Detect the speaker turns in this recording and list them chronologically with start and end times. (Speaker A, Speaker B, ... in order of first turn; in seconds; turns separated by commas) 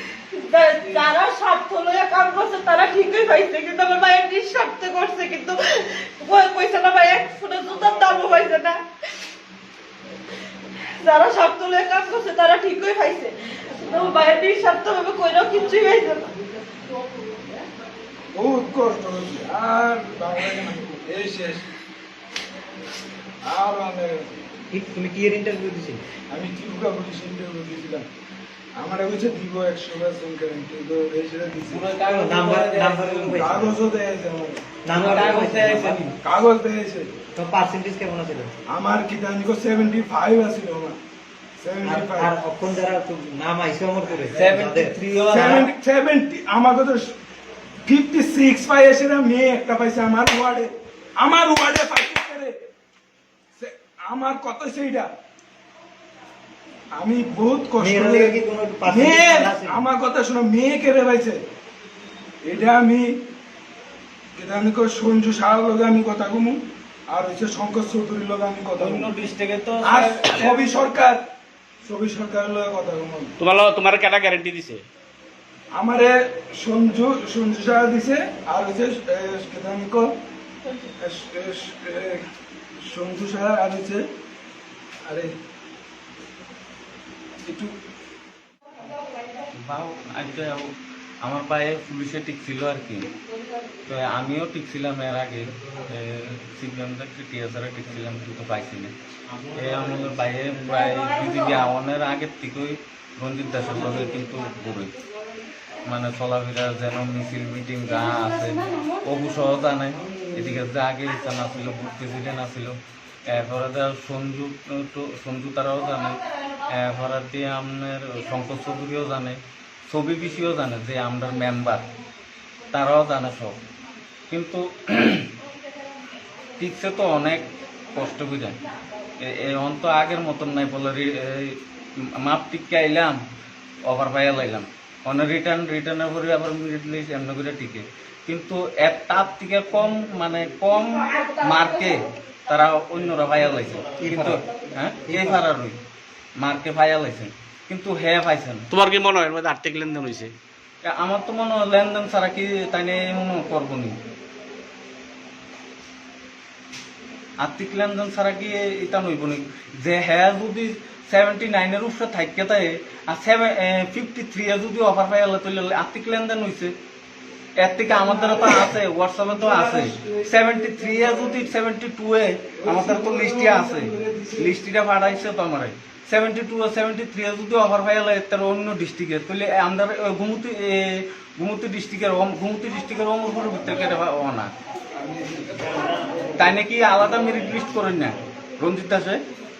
Speaker A: 0.3-8.8, Speaker A: 11.0-16.3, Speaker B: 18.3-21.7, Speaker B: 23.4-24.3, Speaker C: 24.7-26.0, Speaker B: 26.3-28.1, Speaker B: 28.8-31.9, Speaker D: 31.7-33.5, Speaker C: 32.1-33.7, Speaker B: 33.4-34.7, Speaker C: 34.8-36.0, Speaker D: 34.9-36.2, Speaker B: 36.2-37.1, Speaker C: 37.4-38.5, Speaker B: 38.7-41.0, Speaker B: 41.6-42.3, Speaker C: 41.8-45.4, Speaker D: 44.3-45.7, Speaker B: 45.3-47.1, Speaker B: 47.9-52.5, Speaker B: 53.6-55.1, Speaker B: 57.0-61.4, Speaker C: 57.8-59.8, Speaker B: 62.4-63.1, Speaker B: 64.4-66.6, Speaker B: 67.1-69.1, Speaker D: 68.8-70.8, Speaker B: 69.8-71.2, Speaker B: 71.8-73.3, Speaker E: 73.4-74.8, Speaker B: 75.7-80.1, Speaker B: 81.0-82.2, Speaker B: 82.9-84.0, Speaker B: 85.0-85.3, Speaker B: 87.5-87.7, Speaker D: 89.5-90.7, Speaker D: 91.2-93.1, Speaker D: 93.9-98.9, Speaker D: 99.5-105.0, Speaker A: 101.0-101.5, Speaker D: 105.8-112.8, Speaker A: 108.6-108.8, Speaker D: 113.3-121.9, Speaker D: 122.7-123.6, Speaker D: 124.3-125.3, Speaker D: 126.6-128.6, Speaker D: 129.2-131.6, Speaker D: 132.2-133.2, Speaker D: 133.9-145.8, Speaker C: 144.0-144.4, Speaker C: 145.1-145.4, Speaker D: 146.4-148.7, Speaker E: 148.7-150.3, Speaker D: 150.8-154.0, Speaker D: 157.4-166.8, Speaker D: 167.6-184.5, Speaker B: 168.0-168.6, Speaker B: 169.2-171.5, Speaker B: 172.6-174.5, Speaker B: 185.0-185.7, Speaker D: 186.4-189.2